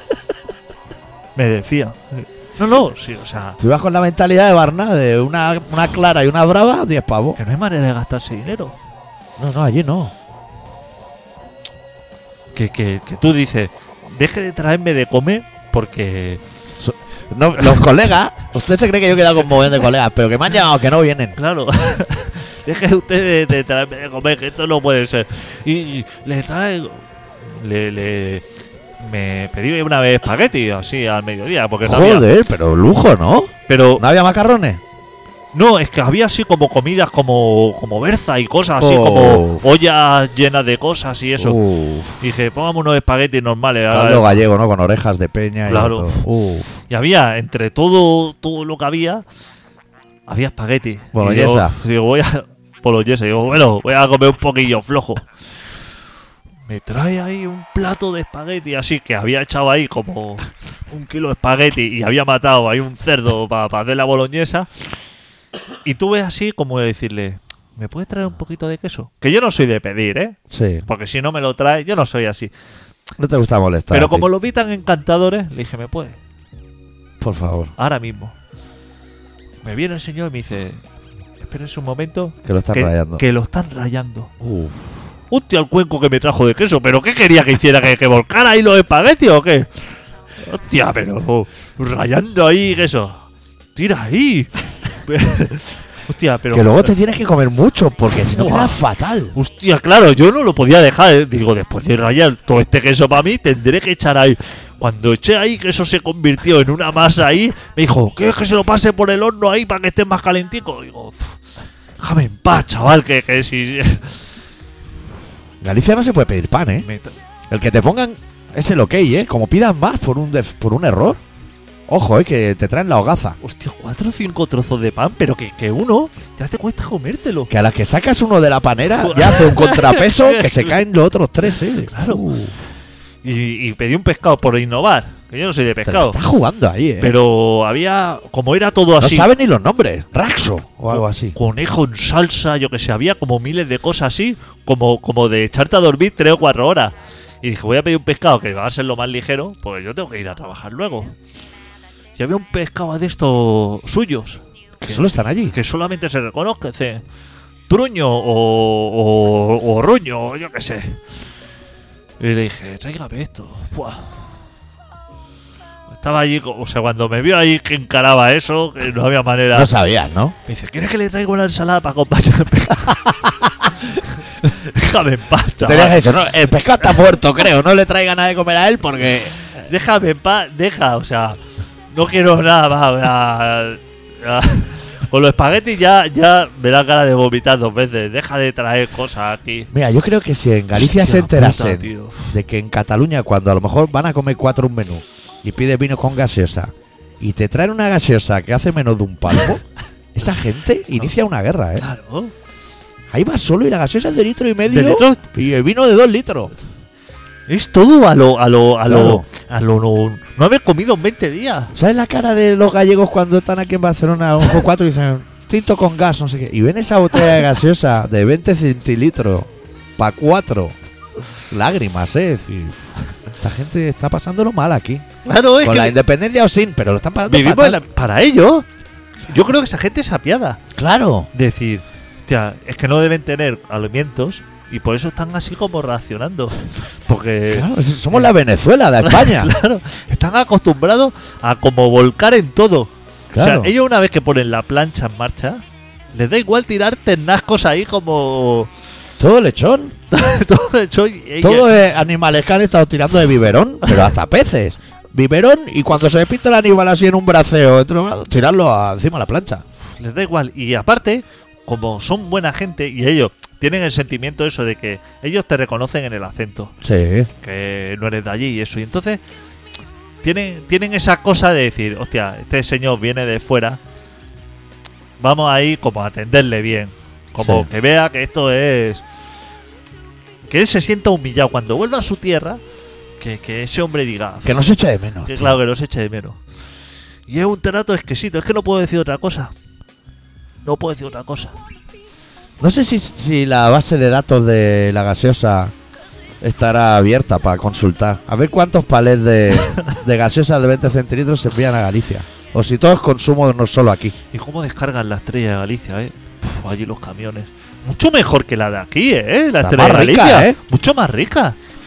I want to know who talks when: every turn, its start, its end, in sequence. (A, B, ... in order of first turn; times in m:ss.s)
0:01.3-0:03.6 A
0:03.6-0:07.4 B
0:07.4-0:08.8 A
0:09.4-0:10.1 B
0:12.5-0:16.4 A
0:16.7-0:21.4 B
0:21.4-0:28.4 A
0:29.0-0:32.3 A
0:31.8-0:34.8 B
0:33.7-0:34.0 A
0:35.5-0:41.6 A
0:38.8-0:39.6 B
0:41.4-0:42.2 B
0:42.2-0:44.4 A
0:43.9-0:46.8 B
0:45.6-0:46.2 A
0:46.9-0:49.2 A
0:50.3-0:55.2 A
0:51.1-0:51.7 B
0:56.7-1:04.7 A
1:05.8-1:12.5 A
1:10.5-1:10.8 B
1:13.2-1:14.3 B
1:13.9-1:16.2 A
1:17.2-1:17.7 B
1:17.8-1:18.3 A
1:19.6-1:20.8 A
1:21.4-1:24.3 A
1:22.4-1:23.2 B
1:24.4-1:24.9 B
1:25.3-1:33.2 A
1:33.7-1:36.9 A
1:36.5-1:39.3 B
1:38.1-1:38.8 A
1:39.3-1:51.4 A
1:52.0-1:54.3 A
1:55.6-1:56.8 B
1:56.8-1:57.1 A
1:57.5-2:01.2 B
2:01.9-2:03.4 B
2:03.4-2:07.5 A
2:07.5-2:12.6 B
2:09.0-2:10.8 A
2:11.9-2:12.2 A
2:13.2-2:16.2 A
2:15.8-2:17.2 B
2:17.0-2:19.3 A
2:19.0-2:21.4 B
2:20.9-2:31.1 A
2:32.2-2:37.0 A
2:34.8-2:35.6 B
2:37.7-2:41.0 A
2:42.2-2:44.2 A
2:45.9-2:49.7 A
2:49.5-2:50.4 B
2:50.4-2:56.2 A
2:55.6-2:59.3 B
2:59.6-3:01.4 A
3:01.9-3:09.7 A
3:09.7-3:19.6 B
3:10.7-3:12.3 A
3:20.1-3:21.8 B
3:21.8-3:22.3 A
3:23.1-3:26.5 B
3:24.7-3:25.3 A
3:27.5-3:31.7 A
3:28.9-3:29.2 B
3:31.7-3:40.7 B
3:41.5-3:45.0 B
3:45.2-3:46.0 A
3:45.6-3:47.8 B
3:47.3-3:48.6 A
3:49.3-3:50.6 A
3:50.8-3:51.3 B
3:51.3-3:58.3 A
3:57.5-3:59.5 B
3:59.0-4:05.6 A
4:03.3-4:03.7 B
4:06.1-4:08.7 A
4:09.2-4:09.9 B
4:10.1-4:11.7 A
4:11.4-4:19.6 B
4:20.0-4:26.7 A
4:26.8-4:27.3 B
4:27.4-4:29.2 A
4:30.2-4:33.8 A
4:35.2-4:39.0 A
4:37.4-4:37.6 B
4:40.5-4:42.6 A
4:43.2-4:44.6 A
4:44.4-4:45.6 B
4:45.2-4:46.4 A
4:47.3-4:49.5 A
4:50.6-4:51.5 A
4:52.6-4:55.7 B
4:56.4-5:04.1 B
4:59.6-4:59.9 A
5:04.3-5:11.6 A
5:09.6-5:10.6 B